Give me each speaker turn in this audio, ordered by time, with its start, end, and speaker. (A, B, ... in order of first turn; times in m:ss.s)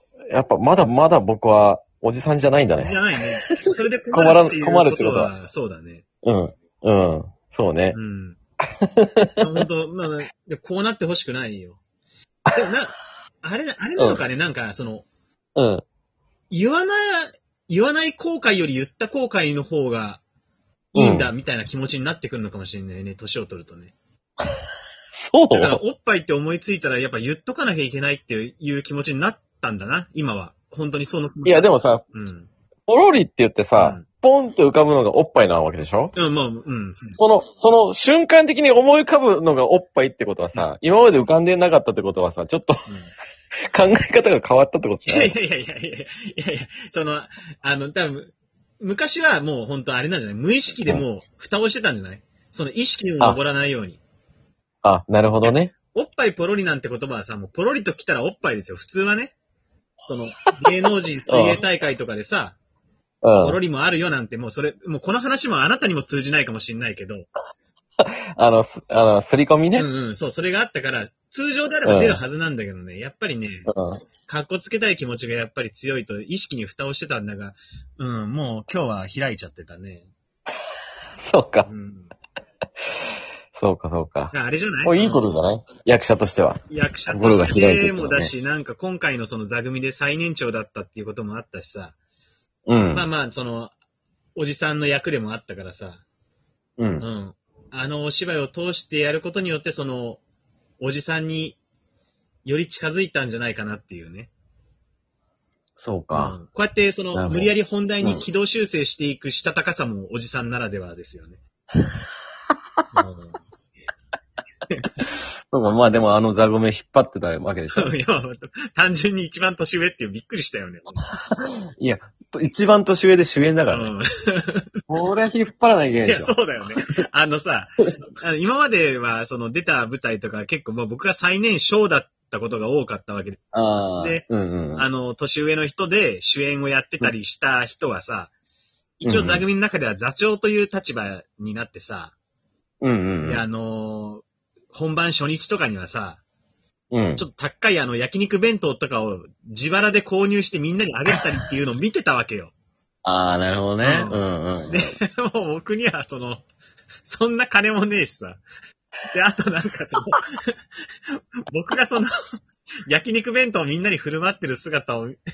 0:00.3-0:03.0 A
0:02.8-0:06.0 B
0:04.1-0:05.3 A
0:06.2-0:08.0 A
0:07.9-0:08.4 B
0:08.6-0:09.4 A
0:09.4-0:11.8 B
0:12.5-0:15.0 B
0:15.6-0:15.8 A
0:16.5-0:20.2 B
0:20.9-0:23.9 B
0:20.9-0:21.3 A
0:25.3-0:25.8 A
0:25.5-0:32.5 B
0:31.4-0:32.0 A
0:32.9-0:36.1 A
0:33.8-0:34.0 B
0:36.1-0:37.2 B
0:37.2-0:42.8 A
0:42.9-0:43.1 B
0:43.7-0:45.3 A
0:45.1-0:54.0 B
0:54.8-0:55.7 A
0:55.4-0:59.4 B
1:00.0-1:02.6 B
1:01.3-1:01.6 A
1:03.2-1:03.6 A
1:03.4-1:07.3 B
1:08.0-1:09.9 A
1:09.8-1:13.7 B
1:11.8-1:12.2 A
1:13.7-1:14.0 A
1:14.3-1:20.1 B
1:21.2-1:21.7 A
1:21.7-1:22.1 B
1:23.5-1:24.3 A
1:24.3-1:25.3 B
1:24.8-1:28.3 A
1:26.7-1:32.0 B
1:32.7-1:33.1 A
1:32.9-1:33.7 B
1:34.4-1:36.0 B
1:36.8-1:37.0 A
1:37.0-1:40.2 B
1:40.8-1:41.6 B
1:42.4-1:44.3 B
1:45.8-1:46.4 A
1:46.1-1:51.4 B
1:47.1-1:48.2 A
1:52.9-1:53.4 B
1:55.5-1:58.0 A
1:57.7-2:01.1 B
2:01.4-2:03.9 A
2:03.7-2:04.7 B
2:04.9-2:06.3 A
2:06.0-2:13.4 B
2:13.5-2:14.9 A
2:14.0-2:14.2 B
2:14.8-2:18.3 B
2:19.0-2:22.1 B
2:19.0-2:19.4 A
2:22.8-2:23.4 A
2:23.2-2:26.2 B
2:26.9-2:27.2 A
2:27.1-2:32.5 B
2:33.0-2:34.9 A
2:33.8-2:36.4 B
2:37.0-2:38.4 B
2:39.1-2:40.6 B
2:41.1-2:45.2 B